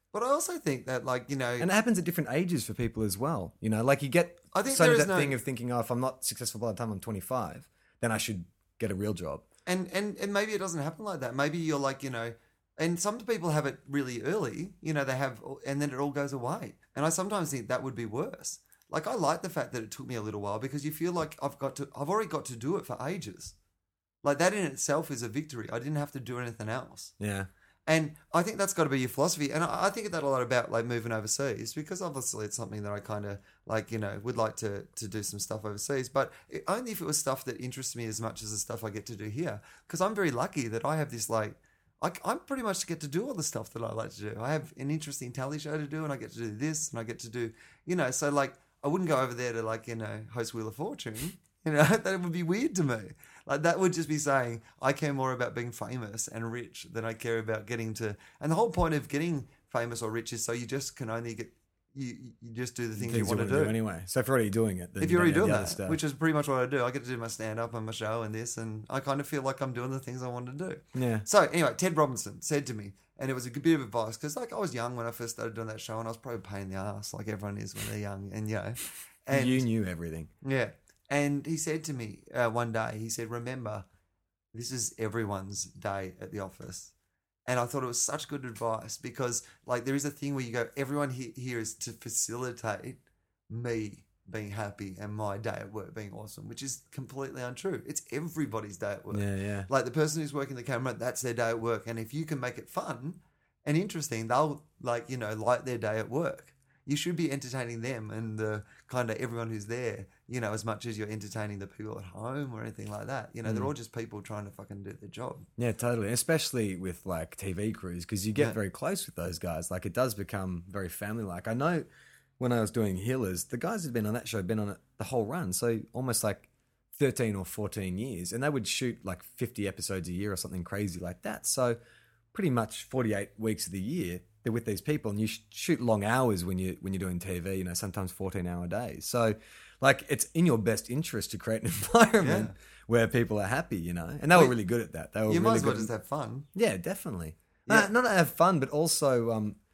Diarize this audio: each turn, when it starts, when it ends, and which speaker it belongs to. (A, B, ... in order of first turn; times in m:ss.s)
0:00.1-0:01.7 A
0:01.6-0:09.4 B
0:04.5-0:05.4 A
0:09.7-0:23.5 A
0:24.2-0:27.1 A
0:27.2-0:27.5 B
0:27.9-1:03.8 A
1:03.0-1:06.0 B
1:05.0-1:19.7 A
1:11.0-1:11.3 B
1:19.3-1:20.3 B
1:20.4-1:23.8 A
1:24.5-1:26.9 A
1:27.5-1:55.5 A
1:39.1-1:39.7 B
1:53.4-1:53.7 B
1:55.6-2:01.9 B
2:02.4-2:11.8 B
2:12.3-2:25.9 B
2:22.2-2:22.5 A
2:25.3-2:26.5 A
2:26.6-2:29.6 B